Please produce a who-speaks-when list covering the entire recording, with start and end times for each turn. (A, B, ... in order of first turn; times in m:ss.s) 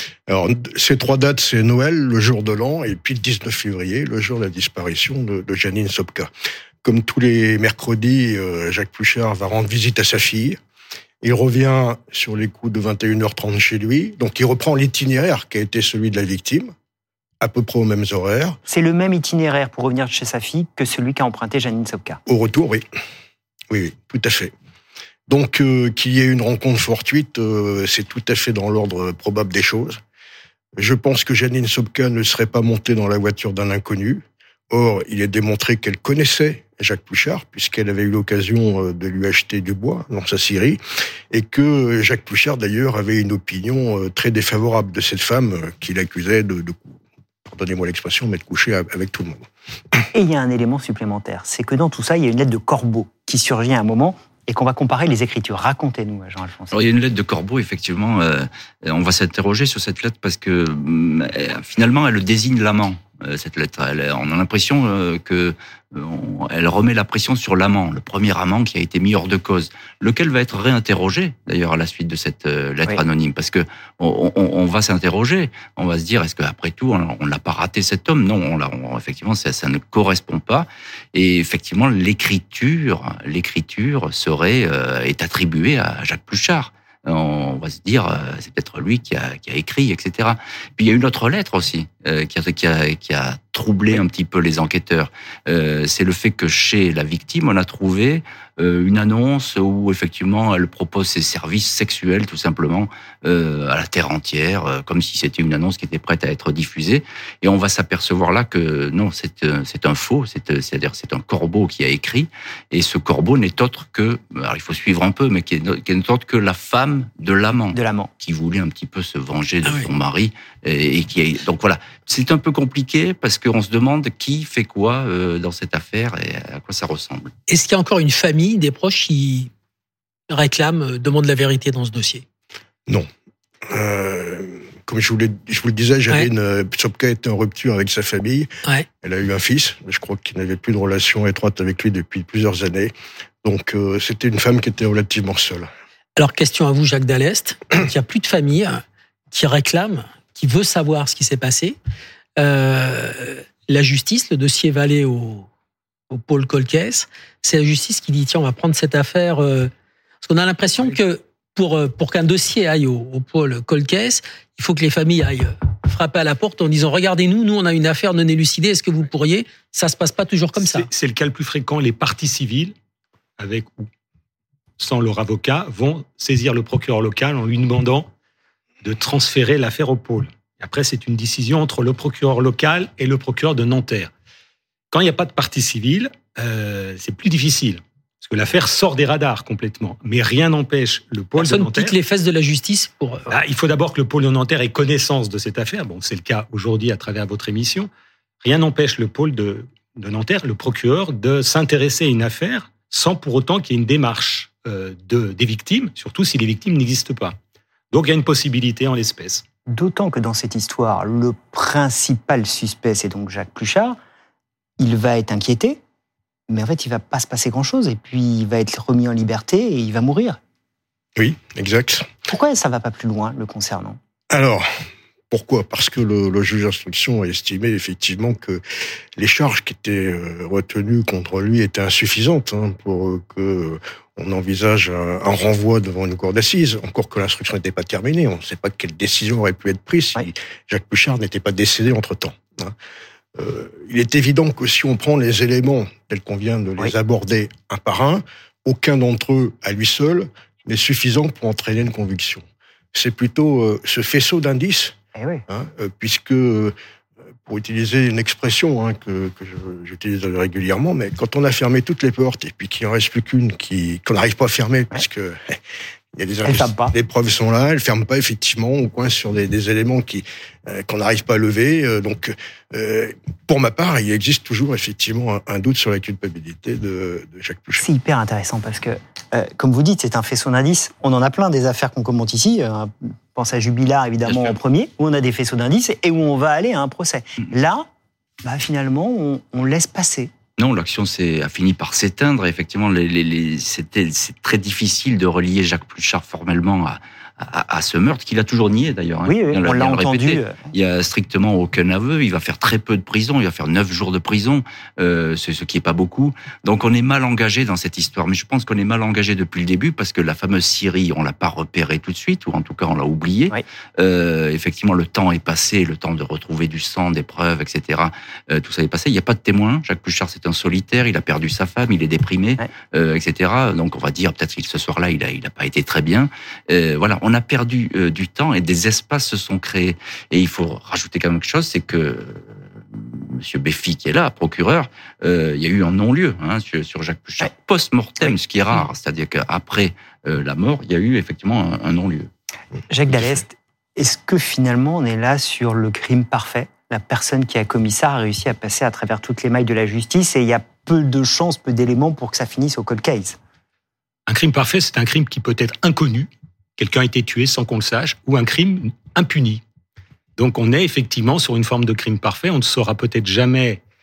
0:00.3-0:06.3 A
0:06.8-0:10.6 A
0:11.2-0:16.7 A
0:17.4-0:18.6 A
0:18.7-0:22.2 B
0:22.3-0:22.8 A
0:23.7-0:24.5 A
0:25.3-0:30.0 A
0:30.8-0:40.8 A
0:41.3-0:49.4 A
0:50.1-0:56.8 B
0:56.7-2:07.3 C
1:57.7-1:58.1 B
1:59.6-1:59.9 D
2:07.5-2:09.5 D
2:10.3-2:12.2 D
2:13.7-2:18.5 A
2:19.0-2:22.9 A
2:23.4-2:25.7 A
2:26.2-2:31.8 D
2:32.4-2:35.5 D
2:36.1-2:39.7 D
2:40.2-2:50.9 D
2:50.5-2:52.8 E
2:53.4-2:53.9 E
2:54.8-2:58.1 E
2:58.8-3:04.1 E
3:04.9-3:12.0 E
3:11.4-3:13.4 D
3:13.3-3:17.9 E
3:18.4-3:27.4 E
3:27.9-3:29.4 E
3:29.7-3:34.0 B
3:34.8-3:35.8 B
3:36.5-3:40.4 B
3:41.2-3:42.1 A
3:42.3-3:44.0 B
3:44.3-3:44.6 A
3:45.3-3:48.6 A
3:49.2-4:02.7 A
4:03.4-4:15.0 A
4:15.2-4:15.4 B
4:15.5-4:16.8 A
4:17.5-4:25.6 A
4:26.2-4:37.8 A
4:26.4-4:26.9 B
4:37.8-4:47.9 B
4:44.2-4:44.6 C
4:48.4-4:50.3 B
4:50.6-5:42.3 C
4:59.2-5:00.6 B
5:42.9-5:53.4 B
5:54.3-5:59.6 E
6:00.4-6:03.8 E